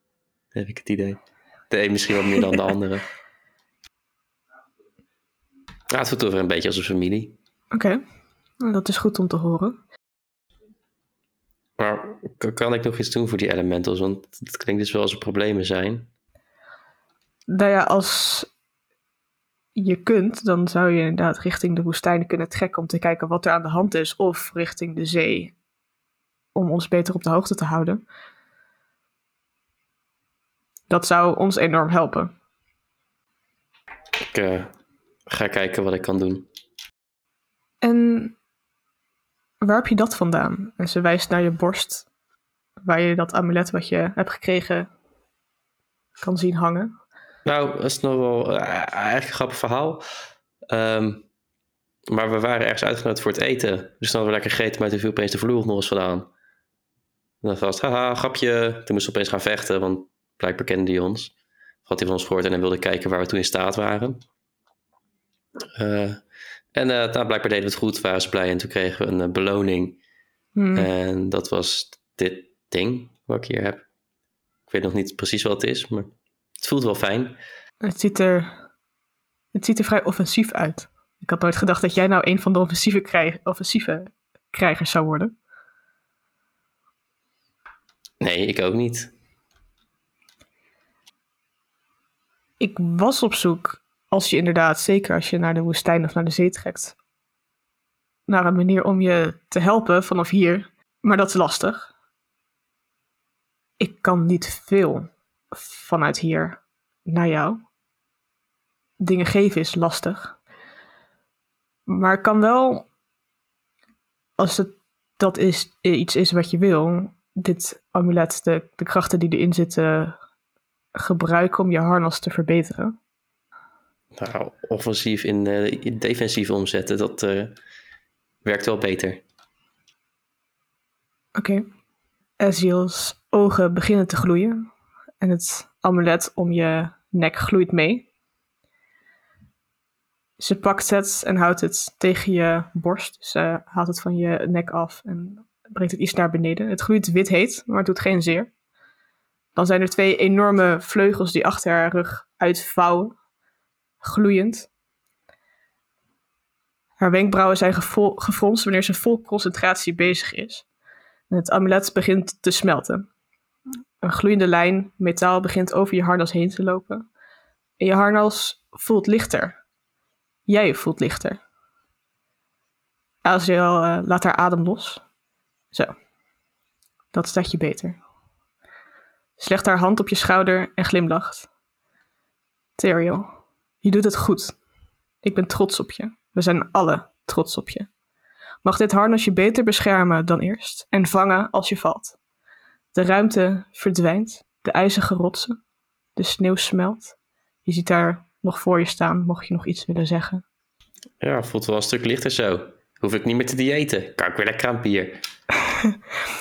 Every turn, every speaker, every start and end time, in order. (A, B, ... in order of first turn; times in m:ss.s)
0:00.5-0:03.0 A
0:05.9-0:07.4 A
0:07.7-0:08.0 B
0:08.6-0:09.8 B
0:11.8-0:16.1 A
0:17.5-0:18.5 B
0:19.8-0:25.5 B
0:26.5-0:28.0 B
0:30.9-0:32.3 B
0:34.2-0:34.7 A
0:35.3-0:36.5 A
0:37.8-0:38.4 B
0:39.6-0:42.0 B
0:42.8-0:44.9 B
0:46.2-0:46.9 B
0:47.4-0:50.0 A
0:50.7-0:51.2 A
0:52.1-0:56.3 A
0:57.4-1:01.3 A
1:01.8-1:04.2 A
1:05.7-1:06.2 A
1:06.7-1:10.0 A
1:10.6-1:10.9 B
1:10.7-1:13.8 A
1:14.7-1:17.4 A
1:17.8-1:18.6 B
1:19.5-1:25.3 B
1:28.2-1:29.1 A
1:32.6-1:36.9 B
1:38.3-1:41.9 B
1:43.8-1:47.6 B
1:49.0-1:50.4 B
1:51.9-1:52.9 B
1:54.4-2:00.2 B
2:00.9-2:02.9 B
2:04.1-2:07.6 A
2:08.4-2:09.2 A
2:11.3-2:11.6 B
2:12.4-2:14.7 B
2:15.2-2:18.1 B
2:20.4-2:28.5 B
2:29.5-2:33.1 B
2:34.0-2:34.7 B
2:37.0-2:40.6 B
2:41.3-2:43.1 B
2:44.0-2:47.0 B
2:47.8-2:49.6 B
2:50.5-2:51.4 B
2:53.2-2:55.0 B
2:57.1-2:58.0 B
2:59.4-3:01.5 B
3:02.8-3:03.3 B
3:03.8-3:04.6 B
3:05.2-3:07.9 B
3:08.6-3:12.2 B
3:12.9-3:15.6 B
3:16.2-3:17.1 B
3:17.6-3:20.4 B
3:21.2-3:25.2 A
3:25.7-3:26.0 B